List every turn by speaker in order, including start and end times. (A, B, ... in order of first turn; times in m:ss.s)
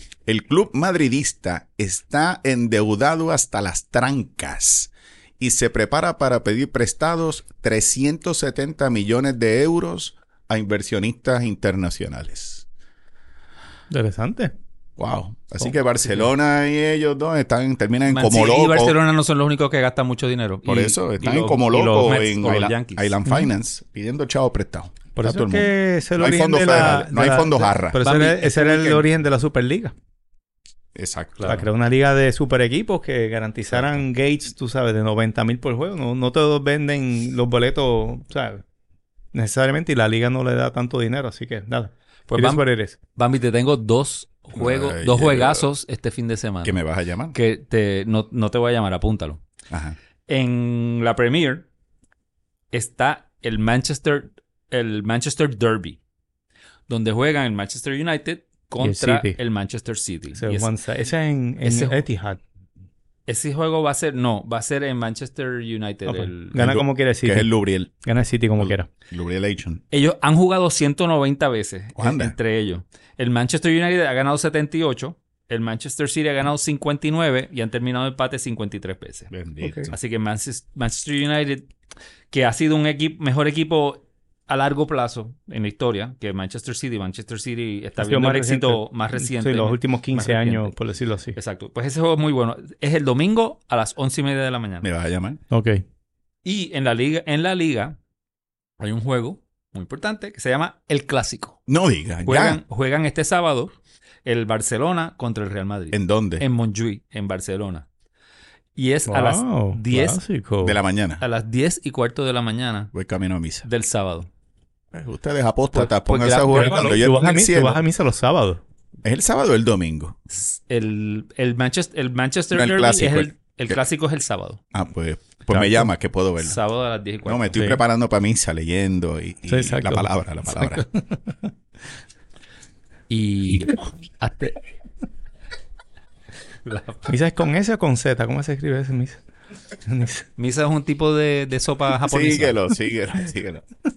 0:00.2-0:12.6 A
0:13.9-0:14.5 B
0:15.0-0:19.0 A
0:18.1-0:23.2 C
0:20.6-0:28.0 A
0:25.2-0:29.9 B
0:28.0-0:29.0 C
0:30.9-0:31.5 A
0:31.4-0:31.6 C
0:31.4-0:38.6 B
0:39.3-0:43.0 B
0:42.3-0:46.8 C
0:44.6-0:45.7 A
0:46.6-0:47.4 A
0:47.3-0:49.4 C
0:49.7-0:50.0 A
0:50.3-0:51.6 C
0:52.7-0:56.0 C
0:56.9-1:00.7 C
0:58.8-0:59.4 B
1:00.4-1:02.4 B
1:01.6-1:02.0 C
1:03.3-1:06.6 C
1:06.0-1:07.5 B
1:06.6-1:07.9 A
1:08.0-1:08.9 B
1:08.6-1:09.8 A
1:09.9-1:19.3 C
1:12.0-1:12.3 A
1:19.3-1:20.0 A
1:19.6-1:19.9 B
1:19.9-1:21.6 C
1:22.3-1:30.7 C
1:28.0-1:31.4 B
1:31.4-1:34.9 C
1:34.8-1:35.4 A
1:35.5-1:35.8 B
1:36.4-1:38.0 C
1:38.8-1:41.6 C
1:41.7-1:42.6 A
1:42.2-1:43.7 C
1:44.2-1:47.9 C
1:45.9-1:46.4 A
1:48.8-1:50.2 C
1:49.1-1:50.8 B
1:50.6-1:51.2 A
1:51.2-1:52.9 C
1:52.9-1:53.7 A
1:53.6-1:54.3 C
1:54.9-1:57.8 A
1:55.7-1:57.1 C
1:56.5-1:58.6 B
1:59.0-2:00.2 A
2:00.3-2:04.6 C
2:02.5-2:03.7 A
2:04.7-2:06.6 A
2:05.5-2:05.8 B
2:06.4-2:07.7 C
2:07.2-2:10.8 A
2:09.5-2:11.3 B
2:13.1-2:14.6 C
2:16.6-2:17.0 C
2:17.1-2:19.2 B
2:19.8-2:20.2 B
2:20.4-2:22.6 C
2:22.0-2:23.6 A